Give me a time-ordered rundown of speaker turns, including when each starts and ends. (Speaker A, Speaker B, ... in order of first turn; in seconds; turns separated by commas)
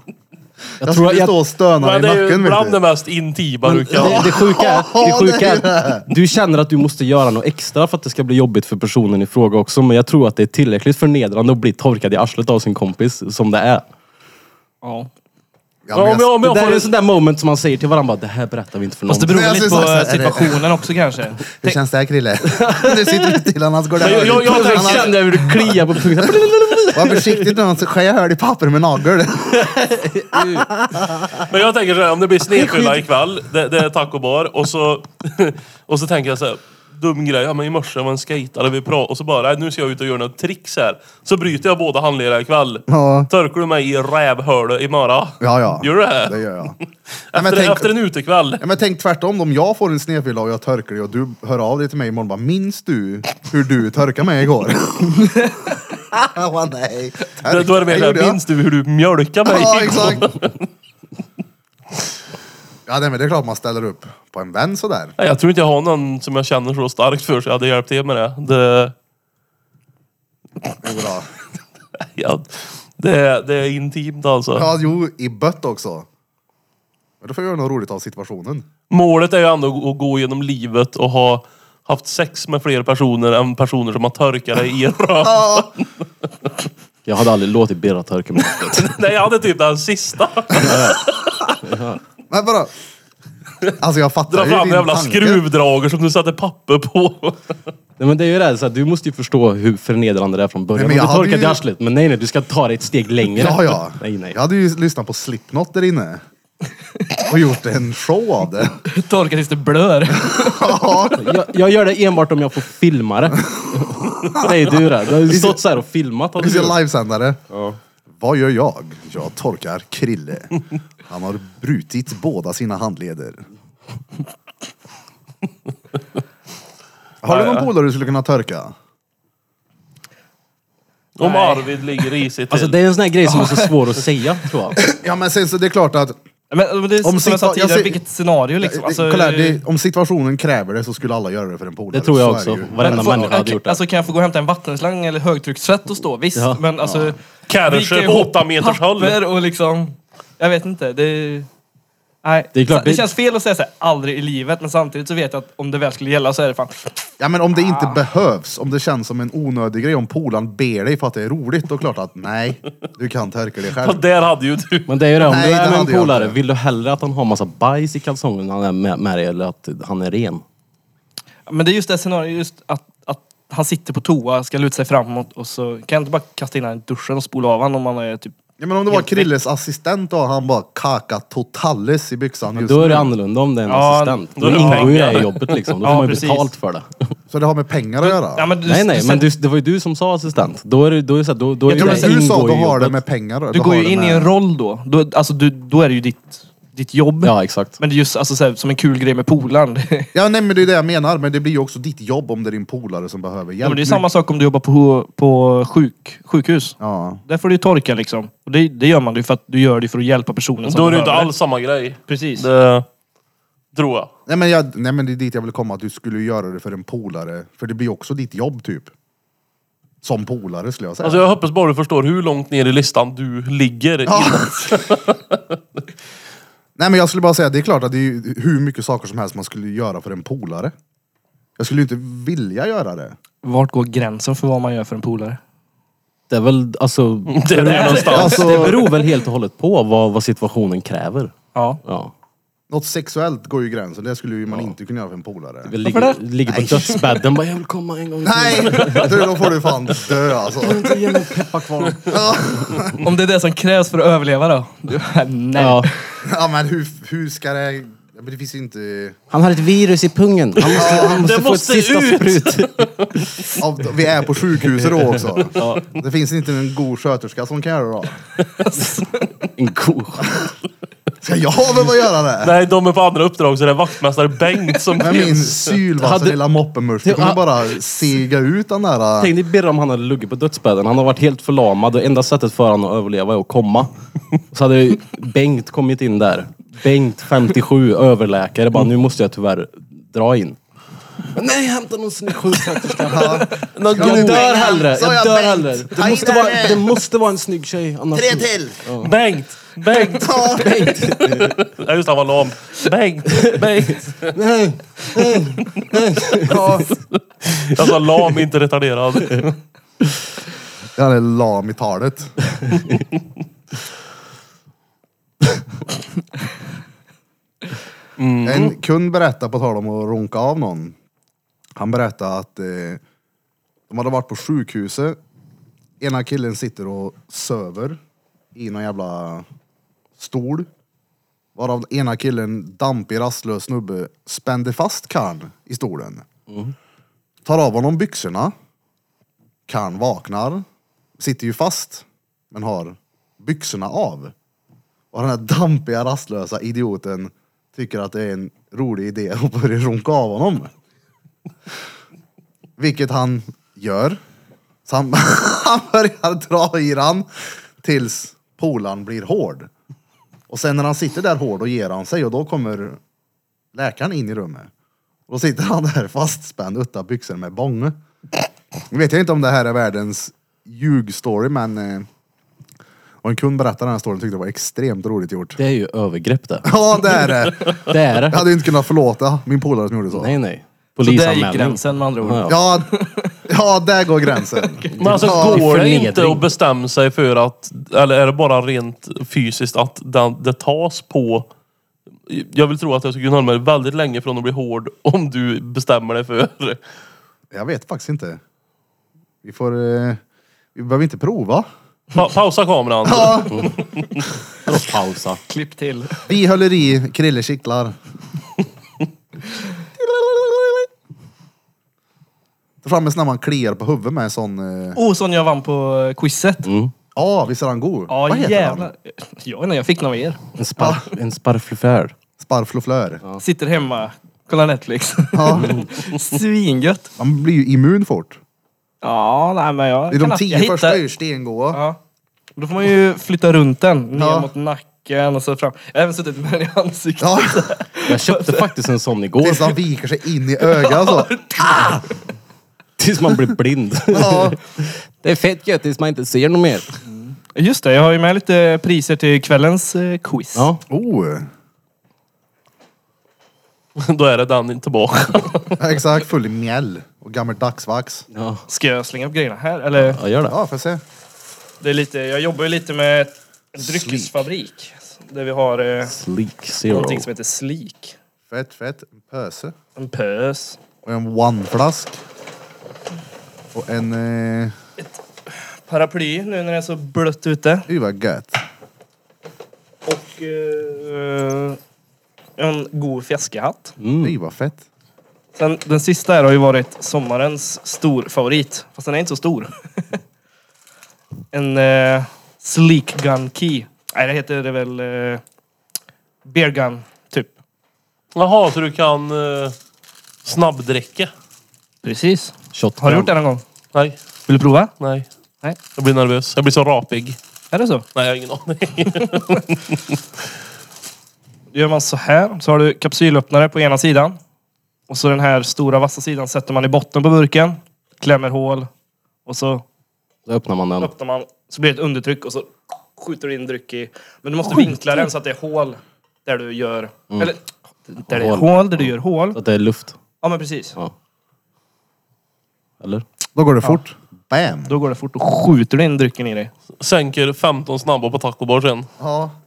Speaker A: 0.8-2.8, Speaker B: 0.8-1.3, Speaker C: 1.8-4.4, Speaker B: 3.6-13.8, Speaker A: 4.0-6.1, Speaker D: 14.8-15.1, Speaker A: 15.9-16.4, Speaker C: 15.9-16.9, Speaker B: 16.4-19.8, Speaker D: 19.1-21.8, Speaker A: 19.3-20.8, Speaker A: 21.6-25.1, Speaker B: 22.6-23.4, Speaker B: 24.0-27.6, Speaker C: 24.0-25.5, Speaker A: 26.9-29.7, Speaker B: 29.6-31.5, Speaker C: 31.4-48.6, Speaker B: 32.5-33.0, Speaker A: 42.9-43.3, Speaker A: 45.4-46.8, Speaker A: 47.3-47.9, Speaker A: 48.6-55.6, Speaker A: 56.1-58.4, Speaker C: 57.5-60.6, Speaker A: 59.5-60.3, Speaker A: 62.9-65.2, Speaker C: 65.2-68.9, Speaker A: 70.8-71.3, Speaker C: 72.0-74.7, Speaker A: 74.5-76.1, Speaker A: 77.2-78.7, Speaker C: 78.9-85.9, Speaker A: 85.2-85.7, Speaker B: 87.0-88.9, Speaker C: 88.6-91.4, Speaker B: 90.6-91.0, Speaker B: 91.6-92.0, Speaker A: 92.3-92.7, Speaker A: 93.8-95.4, Speaker C: 94.3-97.4, Speaker B: 98.0-104.4, Speaker A: 100.8-101.6, Speaker A: 103.4-106.2, Speaker A: 107.2-108.8, Speaker D: 108.9-111.1, Speaker A: 110.2-111.3, Speaker B: 111.1-116.8, Speaker A: 113.5-115.6, Speaker A: 116.4-117.4, Speaker B: 117.5-117.8, Speaker A: 118.2-123.5, Speaker A: 127.2-128.8, Speaker C: 127.3-127.7, Speaker C: 131.2-132.7, Speaker D: 131.2-131.7, Speaker B: 132.5-134.8, Speaker D: 133.2-133.8, Speaker A: 134.8-136.2, Speaker D: 136.5-139.6, Speaker A: 137.0-138.0, Speaker A: 138.6-142.8, Speaker B: 141.9-143.8, Speaker D: 142.8-151.5, Speaker B: 146.3-146.7, Speaker A: 146.8-147.1, Speaker C: 147.5-149.2, Speaker D: 152.2-157.0, Speaker B: 152.5-153.1, Speaker A: 157.2-164.0, Speaker D: 157.6-158.0, Speaker C: 163.7-164.9, Speaker B: 164.9-170.4, Speaker A: 165.2-166.4, Speaker D: 171.5-178.4, Speaker A: 178.6-183.1, Speaker D: 178.9-179.3, Speaker B: 182.5-187.1, Speaker D: 183.7-186.5, Speaker C: 184.4-185.4, Speaker A: 187.3-188.5, Speaker D: 188.0-189.3, Speaker B: 188.7-193.0, Speaker D: 191.7-192.2, Speaker A: 191.7-194.3, Speaker D: 193.5-200.1, Speaker B: 197.2-197.8, Speaker A: 200.1-204.1, Speaker D: 203.6-211.3, Speaker A: 206.8-207.2, Speaker C: 210.6-212.9, Speaker D: 212.1-212.5, Speaker C: 213.8-214.1, Speaker A: 214.3-218.9, Speaker A: 220.0-221.3, Speaker C: 221.0-225.6, Speaker A: 224.1-224.8, Speaker A: 226.8-230.7, Speaker A: 231.6-233.2, Speaker D: 233.4-235.4, Speaker B: 236.3-242.1, Speaker C: 237.3-238.8, Speaker D: 237.6-239.0, Speaker A: 238.2-238.7, Speaker D: 241.6-241.8, Speaker A: 242.7-245.7, Speaker B: 244.5-244.7, Speaker B: 245.7-249.5, Speaker D: 245.8-246.2, Speaker A: 246.5-247.0, Speaker A: 248.2-251.1, Speaker B: 250.6-252.9, Speaker A: 252.1-253.1, Speaker D: 253.0-256.2, Speaker B: 255.6-255.9, Speaker A: 256.2-259.2, Speaker B: 259.3-263.4, Speaker C: 260.6-263.6, Speaker A: 260.8-261.2, Speaker A: 263.6-268.2, Speaker B: 264.7-265.8, Speaker B: 269.6-270.4, Speaker A: 271.2-272.6, Speaker C: 272.4-275.8, Speaker A: 275.0-279.3, Speaker B: 276.0-276.4, Speaker B: 277.0-277.8, Speaker B: 279.2-283.9, Speaker B: 284.5-290.6, Speaker B: 291.3-299.1, Speaker A: 293.1-296.9, Speaker C: 293.8-294.5, Speaker A: 298.1-298.8, Speaker C: 299.0-304.4, Speaker A: 300.2-300.9, Speaker B: 300.4-301.6, Speaker B: 303.5-306.7, Speaker C: 305.1-306.4, Speaker A: 306.5-306.9, Speaker C: 307.4-309.6, Speaker B: 307.8-308.1, Speaker A: 311.0-312.4, Speaker C: 318.2-318.8, Speaker A: 318.4-321.0, Speaker A: 321.8-323.0, Speaker A: 323.9-325.2, Speaker A: 326.0-328.0, Speaker A: 328.6-329.5, Speaker A: 330.2-330.7, Speaker A: 331.6-336.3, Speaker A: 337.4-338.5, Speaker A: 339.7-340.6, Speaker A: 341.2-344.3, Speaker A: 345.1-350.7, Speaker A: 352.8-354.2, Speaker A: 354.9-357.3, Speaker A: 357.8-359.7, Speaker A: 360.5-363.0, Speaker A: 363.8-364.7, Speaker A: 365.3-367.9, Speaker A: 368.9-372.1, Speaker A: 373.2-375.6, Speaker B: 375.6-376.7, Speaker A: 376.6-380.4, Speaker B: 377.7-378.6, Speaker B: 380.1-382.6, Speaker D: 381.0-383.4, Speaker A: 382.5-382.9, Speaker A: 383.4-385.6, Speaker D: 384.4-385.3, Speaker B: 384.9-386.4, Speaker C: 385.0-391.5, Speaker C: 392.3-396.8, Speaker A: 397.5-398.4, Speaker A: 399.4-400.2, Speaker A: 400.8-401.7, Speaker C: 402.1-404.2, Speaker A: 403.1-403.7, Speaker B: 404.6-405.4, Speaker D: 405.5-406.3, Speaker A: 406.3-407.9, Speaker D: 410.0-410.9, Speaker A: 412.8-415.0, Speaker D: 415.0-416.7, Speaker B: 416.6-416.9, Speaker A: 417.1-418.9, Speaker D: 418.1-420.4, Speaker B: 420.6-422.1, Speaker A: 420.8-421.1, Speaker A: 422.4-423.2, Speaker D: 423.4-427.1, Speaker A: 425.3-425.8, Speaker A: 427.2-428.4, Speaker D: 429.0-431.0, Speaker A: 430.1-431.8, Speaker D: 431.7-432.0, Speaker D: 432.6-438.7, Speaker A: 434.1-434.5, Speaker A: 437.2-437.7, Speaker B: 438.1-439.8, Speaker A: 439.4-442.0, Speaker D: 440.8-442.0, Speaker B: 443.0-446.9, Speaker A: 444.1-444.6, Speaker D: 447.1-450.7, Speaker B: 450.6-450.8, Speaker A: 450.9-451.5, Speaker C: 454.0-455.8, Speaker A: 455.8-458.3, Speaker B: 458.3-458.6, Speaker D: 458.7-460.2, Speaker B: 459.9-460.6, Speaker A: 460.5-461.0, Speaker D: 461.8-466.1, Speaker A: 463.8-464.3, Speaker B: 466.1-467.3, Speaker D: 466.9-468.1, Speaker A: 468.5-469.7, Speaker D: 470.0-470.8, Speaker A: 471.1-472.2, Speaker A: 473.8-474.8, Speaker D: 475.0-477.9, Speaker A: 477.9-478.6, Speaker D: 480.1-481.8, Speaker D: 482.6-484.0, Speaker B: 484.0-484.4, Speaker A: 484.2-484.8, Speaker D: 485.6-490.2, Speaker D: 491.5-495.4, Speaker D: 496.4-497.5, Speaker C: 498.4-499.8, Speaker C: 500.4-501.3, Speaker D: 502.0-503.6, Speaker B: 502.7-503.3, Speaker D: 504.5-504.9, Speaker C: 505.0-505.3, Speaker C: 505.9-507.4, Speaker D: 507.7-508.1, Speaker C: 508.1-510.2, Speaker D: 511.7-514.4, Speaker D: 515.1-518.9, Speaker D: 519.5-519.8, Speaker B: 520.5-521.1, Speaker D: 521.0-529.6, Speaker B: 528.3-530.2, Speaker D: 530.4-531.0, Speaker A: 533.5-535.0, Speaker D: 534.9-536.7, Speaker C: 537.0-539.1, Speaker A: 539.2-539.5